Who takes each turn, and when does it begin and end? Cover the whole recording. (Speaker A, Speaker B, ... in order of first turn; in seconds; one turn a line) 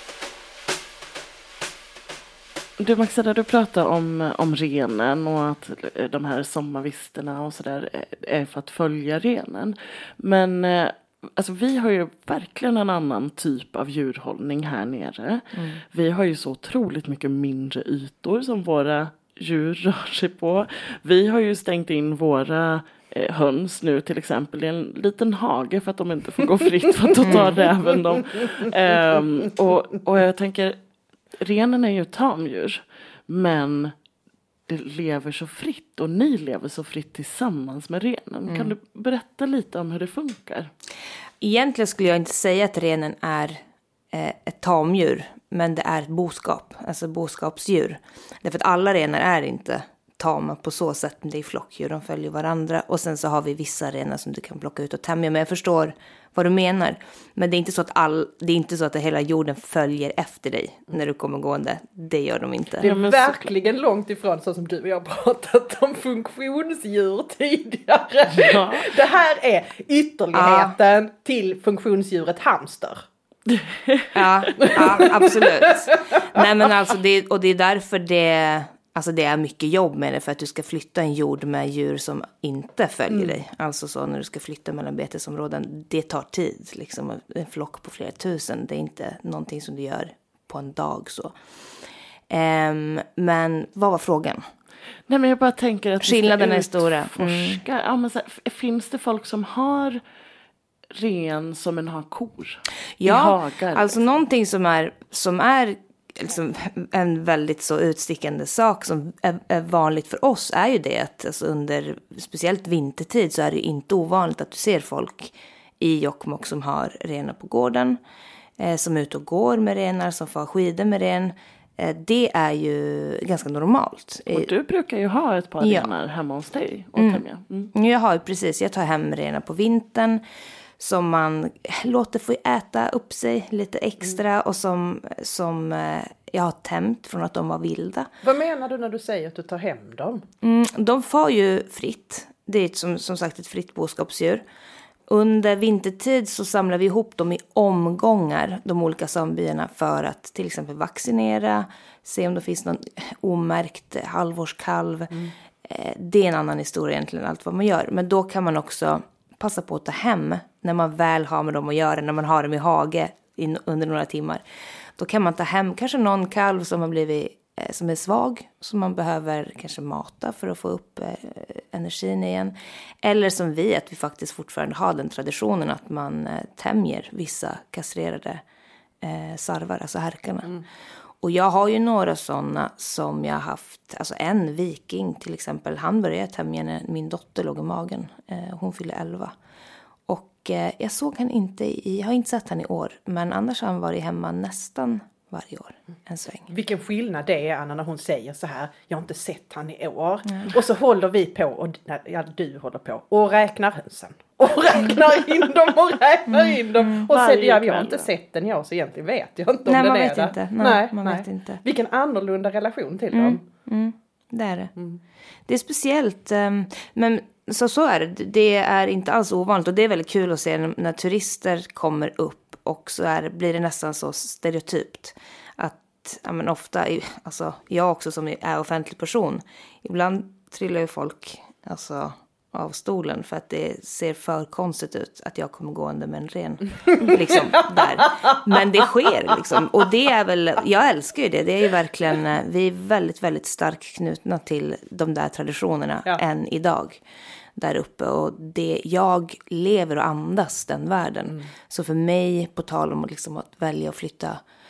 Speaker A: 2.8-30.8
Speaker A: 31.4-34.0
Speaker A: 34.7-40.7
Speaker B: 41.4-43.6
Speaker B: 44.1-62.9
Speaker C: 62.8-73.0
Speaker A: 62.8-63.5
Speaker A: 68.3-69.0
Speaker B: 70.3-70.7
Speaker A: 73.5-74.1
Speaker B: 74.1-91.4
Speaker C: 74.6-75.8
Speaker C: 83.1-83.4
Speaker B: 92.3-94.5
Speaker A: 95.1-100.0
Speaker B: 96.0-97.6
Speaker A: 100.9-104.0
Speaker B: 103.0-118.0
Speaker B: 118.6-124.5
Speaker A: 124.3-127.7
Speaker B: 125.6-125.9
Speaker B: 127.0-130.2
Speaker B: 130.8-138.1
Speaker C: 138.2-140.2
Speaker B: 140.4-144.4
Speaker B: 145.1-164.4
Speaker B: 164.9-178.4
Speaker B: 179.0-180.6
Speaker B: 181.2-189.3
Speaker B: 190.1-196.5
Speaker C: 196.5-213.4
Speaker B: 206.5-207.1
Speaker A: 207.1-208.1
Speaker B: 209.7-211.6
Speaker B: 213.1-214.7
Speaker B: 215.5-247.0
Speaker B: 247.6-254.4